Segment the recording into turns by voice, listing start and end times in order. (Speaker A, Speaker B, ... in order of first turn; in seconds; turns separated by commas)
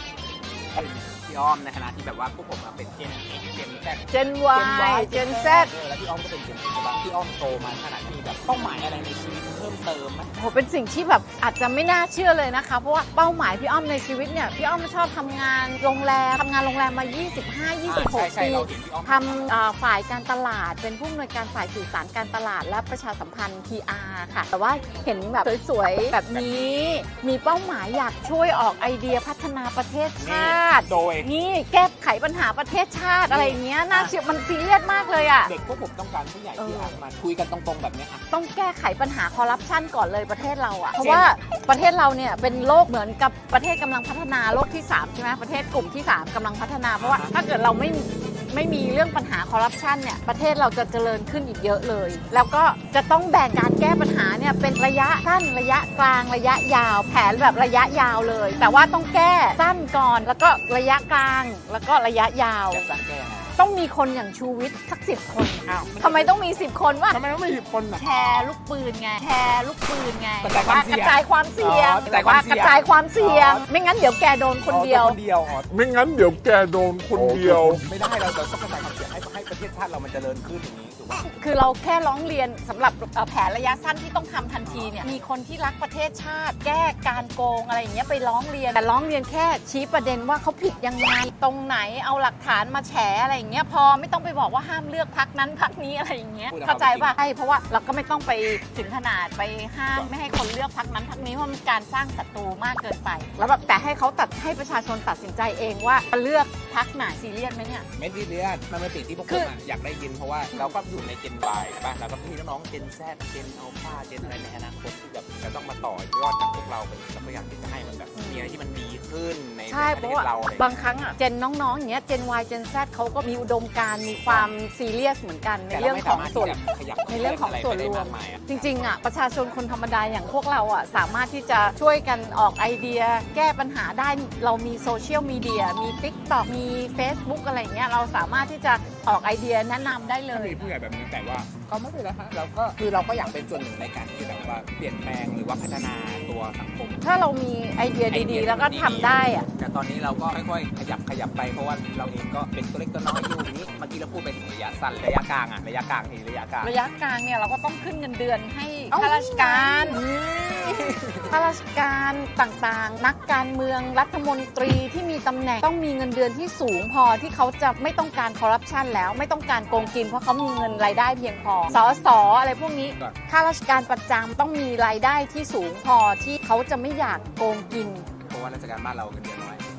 Speaker A: 0.5-10.3, Speaker B: 4.1-5.7, Speaker B: 10.3-35.5, Speaker A: 17.8-19.5, Speaker A: 26.1-27.0, Speaker A: 30.2-31.3, Speaker A: 33.3-34.1, Speaker A: 35.4-38.2, Speaker B: 36.6-37.0, Speaker B: 38.3-62.9, Speaker A: 41.0-41.4, Speaker A: 47.0-47.3, Speaker A: 62.7-63.5, Speaker B: 63.6-67.2, Speaker A: 65.7-66.4, Speaker A: 67.1-68.0, Speaker B: 68.0-75.2, Speaker A: 70.4-73.7, Speaker A: 74.6-75.8, Speaker C: 75.7-77.8, Speaker A: 77.1-81.2, Speaker B: 81.2-107.9, Speaker A: 84.6-85.0, Speaker A: 96.5-97.2, Speaker A: 107.9-121.1, Speaker B: 109.2-109.5, Speaker B: 118.1-118.5, Speaker B: 119.7-140.7, Speaker A: 124.2-124.5, Speaker A: 125.7-128.9, Speaker A: 140.2-147.0, Speaker B: 147.0-149.5, Speaker A: 148.1-156.7, Speaker B: 156.6-160.0, Speaker A: 158.9-161.4, Speaker B: 160.7-178.1, Speaker A: 178.3-179.6